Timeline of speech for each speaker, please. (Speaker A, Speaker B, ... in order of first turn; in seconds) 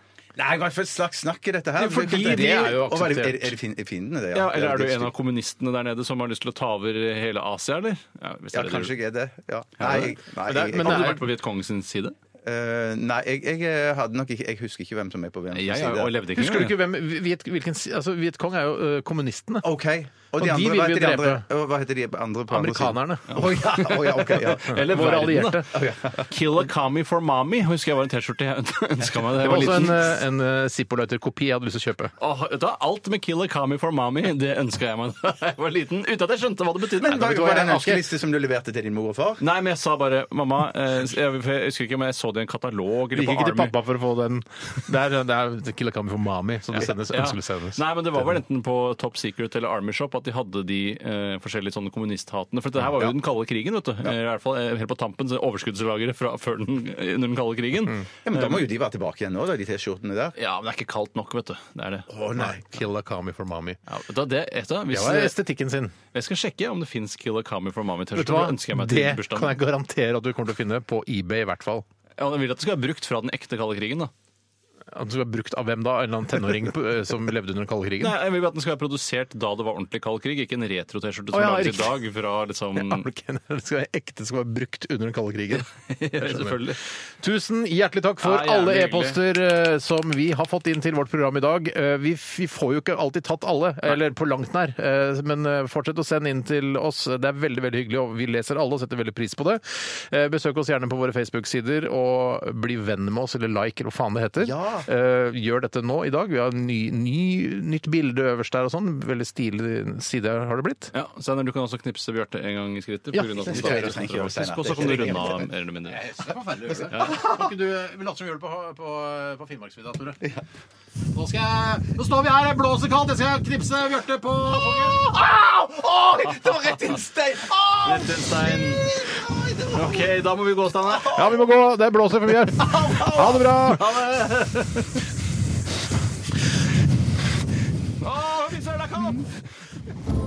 Speaker A: 0.4-5.1, 8.5-11.2, 12.4-16.1, 19.6-24.9, 25.7-26.3, 37.0-39.4, 58.3-60.4, 62.1-62.6, 104.4-104.9, 113.5-115.5, 124.7-130.1, 130.9-131.4, 132.6-133.4
Speaker B: 1.8-3.6, 10.5-11.2, 16.4-19.6, 20.4-21.5, 22.5-23.4, 24.7-25.8, 29.4-32.1, 37.1-38.0, 43.1-48.2, 62.4-63.8, 64.9-66.0, 68.1-71.8, 74.9-78.2, 81.3-82.0, 82.8-110.9, 113.1-114.1, 114.8-115.2, 115.9-120.3, 121.1-125.1, 131.1-134.0
Speaker C: 4.3-8.9, 9.8-10.2, 10.8-12.2, 15.5-16.8, 23.3-30.1, 32.2-37.3, 39.4-43.7, 46.7-58.6, 60.4-62.1, 63.9-65.4, 66.1-69.6, 72.2-74.1, 78.0-83.1, 85.9-86.8, 88.2-89.2, 110.9-116.1, 127.8-128.9, 129.7-131.2, 133.7-135.0, 138.0-139.3